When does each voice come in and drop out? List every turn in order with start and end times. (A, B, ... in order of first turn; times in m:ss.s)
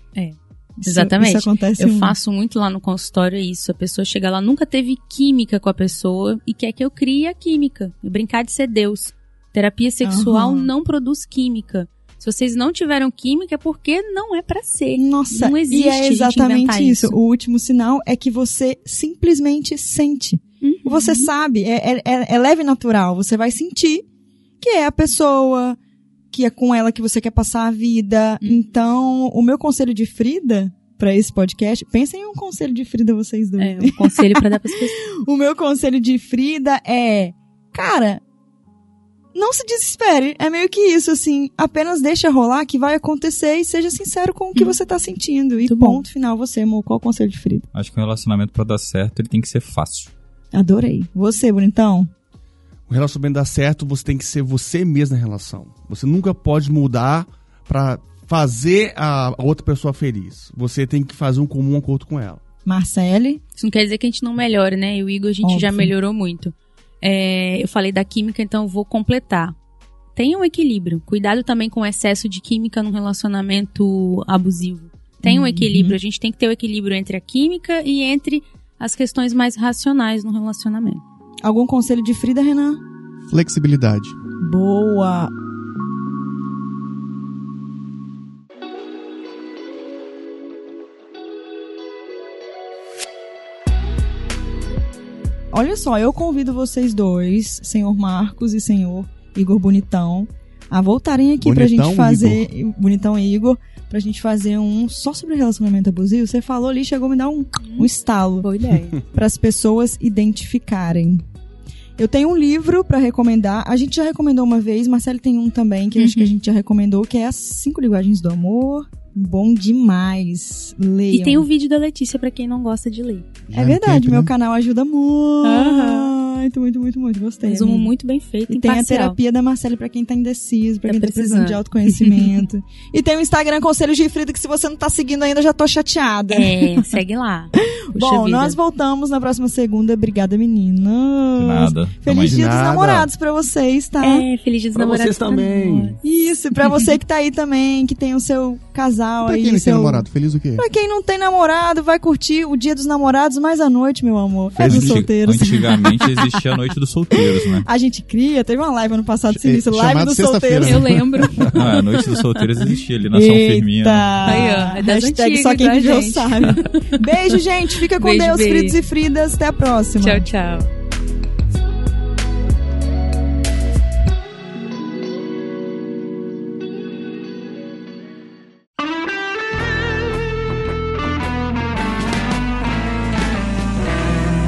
0:00.2-0:17.2 A
0:00.8-0:02.2 B
0:10.0-0:10.7 B
0:15.0-0:24.0 B
0:20.6-0:21.3 A
0:24.6-0:25.8 B
0:26.3-0:34.5 B
0:33.6-0:35.0 A
0:35.2-0:38.2 B
0:39.4-0:47.7 B
0:45.7-0:46.0 A
0:47.7-0:50.1 C
0:50.5-0:52.1 B
0:52.9-1:02.4 D
1:02.6-1:03.4 B
1:03.6-1:09.6 A
1:05.4-1:05.9 B
1:10.2-1:21.0 A
1:15.2-1:16.0 B
1:21.4-1:22.8 B
1:23.3-1:24.2 E
1:24.4-1:25.3 B
1:35.5-1:48.5 B
1:41.4-1:42.5 E
1:47.6-1:47.9 A
1:48.4-1:49.0 A
1:49.1-1:51.2 B
1:52.0-2:01.5 B
1:56.0-1:56.4 A
2:01.1-2:03.3 A
2:03.5-2:04.3 E
2:03.5-2:07.9 B
2:05.4-2:06.1 A
2:07.4-2:09.2 A
2:08.5-2:16.9 B
2:10.9-2:12.5 A
2:16.3-2:18.6 A
2:17.6-2:24.3 B
2:21.4-2:22.5 C
2:22.2-2:23.1 D
2:24.0-2:26.0 A
2:24.8-2:26.0 D
2:26.0-2:36.4 B
2:29.2-2:30.7 E
2:34.6-2:35.1 D
2:34.6-2:37.7 C
2:37.6-2:41.0 B
2:39.3-2:41.1 E
2:40.6-2:42.4 A
2:41.5-2:44.4 C
2:43.1-2:50.3 B
2:44.2-2:48.8 A
2:50.0-2:50.7 A